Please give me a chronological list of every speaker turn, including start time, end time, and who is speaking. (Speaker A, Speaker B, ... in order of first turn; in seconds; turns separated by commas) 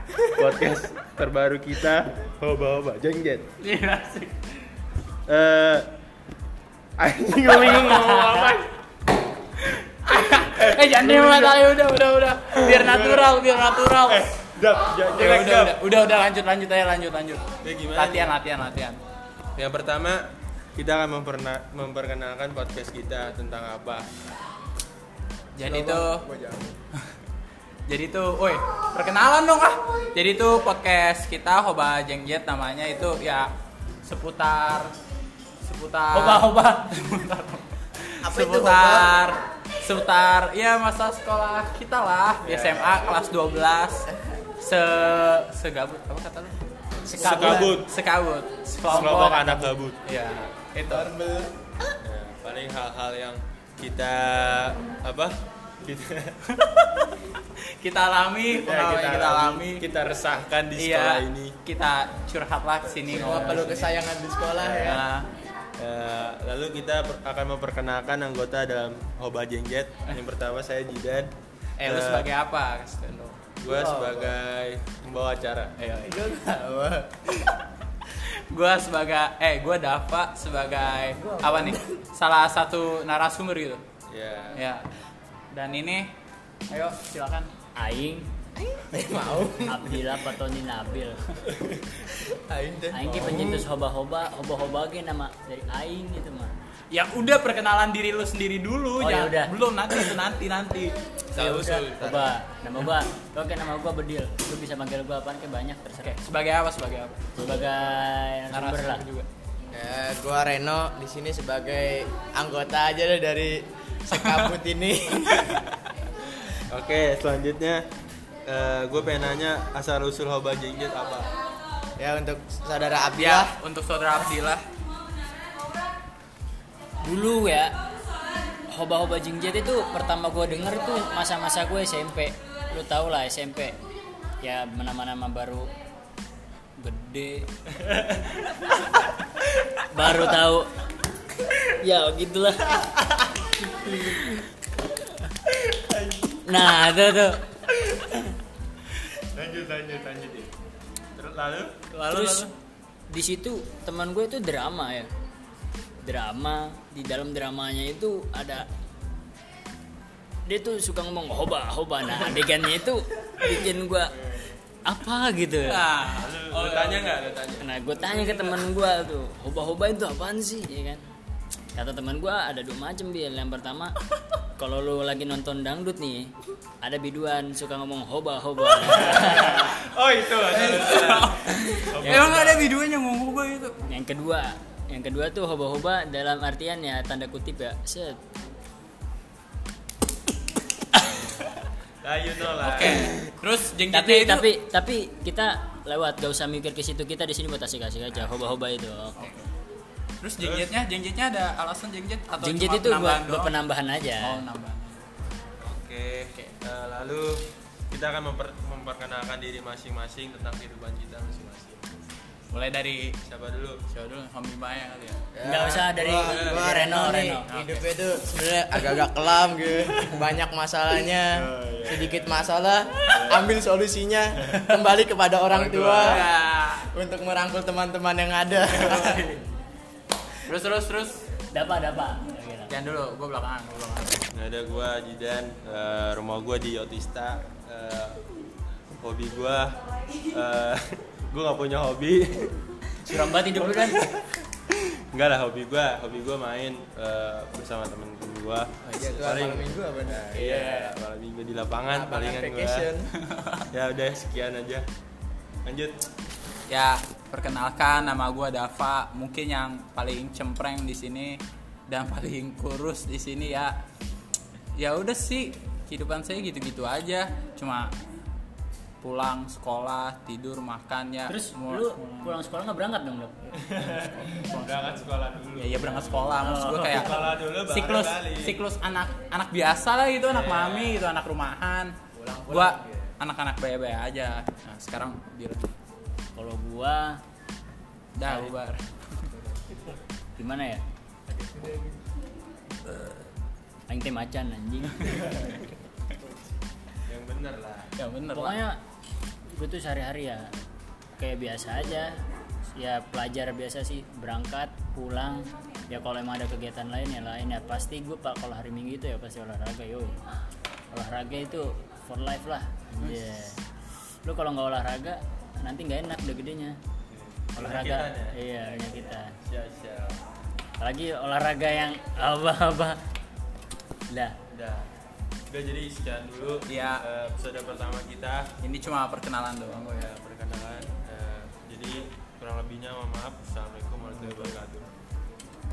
Speaker A: 0.2-3.5, Speaker B: 3.6-4.4, Speaker A: 5.3-5.9, Speaker A: 7.0-8.7, Speaker B: 7.5-8.6, Speaker B: 9.6-14.3, Speaker A: 10.6-11.6, Speaker A: 12.6-13.4, Speaker A: 14.1-15.8, Speaker B: 15.1-19.0, Speaker A: 17.6-18.3, Speaker A: 19.6-24.1, Speaker B: 25.5-26.2, Speaker C: 25.6-26.7, Speaker B: 27.9-33.5, Speaker B: 34.0-34.9, Speaker B: 35.6-46.6, Speaker D: 36.1-36.9, Speaker C: 38.2-39.1, Speaker A: 42.4-43.2, Speaker C: 47.0-47.8, Speaker B: 47.1-51.1, Speaker A: 47.1-47.9, Speaker A: 48.9-50.0, Speaker C: 50.9-51.5, Speaker A: 52.0-56.4, Speaker B: 56.5-59.8, Speaker A: 58.5-61.5, Speaker B: 60.8-64.0, Speaker C: 63.1-65.0, Speaker A: 63.3-63.5, Speaker A: 64.6-65.0, Speaker B: 64.8-65.3, Speaker A: 65.8-72.3, Speaker B: 71.8-73.5, Speaker A: 73.6-76.2, Speaker C: 73.7-74.3, Speaker C: 76.0-77.4, Speaker B: 78.1-83.8, Speaker C: 81.2-81.8, Speaker A: 84.1-84.6, Speaker B: 84.5-84.8, Speaker B: 85.5-86.1, Speaker B: 86.7-87.5, Speaker D: 87.8-88.3, Speaker C: 88.7-90.1, Speaker D: 89.7-91.2, Speaker C: 92.1-93.4, Speaker D: 92.9-96.5, Speaker B: 96.9-100.9, Speaker D: 99.0-99.5, Speaker A: 101.3-102.3, Speaker D: 101.3-106.2, Speaker B: 106.0-107.3, Speaker D: 107.4-109.1, Speaker B: 108.5-109.3, Speaker C: 109.7-115.5, Speaker A: 116.6-117.8, Speaker A: 118.4-121.3, Speaker C: 122.0-123.5, Speaker B: 123.1-124.7, Speaker D: 127.0-127.7, Speaker D: 128.7-133.8, Speaker D: 134.4-135.7, Speaker D: 136.8-137.5, Speaker A: 137.8-138.6, Speaker D: 139.9-140.7, Speaker D: 141.8-143.0, Speaker D: 143.8-144.4, Speaker A: 145.7-146.4, Speaker D: 146.4-147.4, Speaker A: 149.2-150.5, Speaker A: 151.1-151.8, Speaker B: 151.9-152.5, Speaker D: 152.0-152.5, Speaker D: 153.1-155.1, Speaker D: 156.0-158.7, Speaker D: 160.4-165.8, Speaker B: 165.6-167.2, Speaker A: 166.1-168.6, Speaker D: 167.6-171.0, Speaker D: 171.7-173.9, Speaker D: 174.6-179.7, Speaker A: 179.0-182.8, Speaker B: 179.2-179.7, Speaker B: 180.5-183.8, Speaker D: 182.0-182.5, Speaker D: 183.9-188.2, Speaker A: 192.0-193.2, Speaker B: 192.6-194.4, Speaker D: 193.9-199.2, Speaker B: 199.2-199.5, Speaker B: 200.2-203.6, Speaker A: 200.4-200.8, Speaker D: 202.4-204.4, Speaker B: 204.2-205.1, Speaker A: 205.6-211.8, Speaker B: 212.5-213.2, Speaker A: 213.2-213.8, Speaker B: 213.9-215.2, Speaker C: 215.3-226.2, Speaker D: 215.4-217.5, Speaker A: 216.1-216.7, Speaker B: 217.4-217.9, Speaker A: 221.3-222.3, Speaker A: 223.2-223.5, Speaker A: 225.6-226.2, Speaker B: 225.6-226.9, Speaker C: 226.9-229.3, Speaker B: 228.7-229.4, Speaker B: 230.4-231.2, Speaker D: 231.5-232.7, Speaker B: 232.7-234.2, Speaker A: 234.3-238.2, Speaker A: 239.0-242.6, Speaker D: 243.0-244.1, Speaker A: 243.6-252.9, Speaker B: 248.8-249.2, Speaker C: 249.0-250.9, Speaker C: 251.9-253.1, Speaker B: 253.1-253.7, Speaker A: 253.7-254.9, Speaker A: 255.6-256.0, Speaker B: 256.7-263.8, Speaker B: 264.8-267.9, Speaker B: 269.0-272.4, Speaker D: 271.3-273.3, Speaker A: 273.5-278.6, Speaker B: 274.5-274.8, Speaker B: 275.6-281.9, Speaker D: 276.4-277.1, Speaker A: 280.2-281.1, Speaker C: 282.1-283.1, Speaker B: 282.5-285.7, Speaker D: 286.3-287.2, Speaker B: 288.1-289.3, Speaker D: 288.2-288.5, Speaker D: 290.4-290.8, Speaker C: 291.4-291.7, Speaker D: 293.9-295.6, Speaker A: 297.1-297.9, Speaker B: 298.0-298.6, Speaker D: 298.3-298.8, Speaker D: 299.5-300.5, Speaker D: 301.2-302.1, Speaker D: 302.8-310.2, Speaker D: 310.9-313.6, Speaker D: 314.2-316.8, Speaker A: 317.1-318.4, Speaker D: 317.6-319.3, Speaker A: 319.4-320.2, Speaker D: 320.8-323.0, Speaker D: 324.1-324.4, Speaker A: 324.5-324.9, Speaker A: 325.5-328.5, Speaker B: 326.7-327.0, Speaker B: 328.6-330.1, Speaker A: 329.9-334.9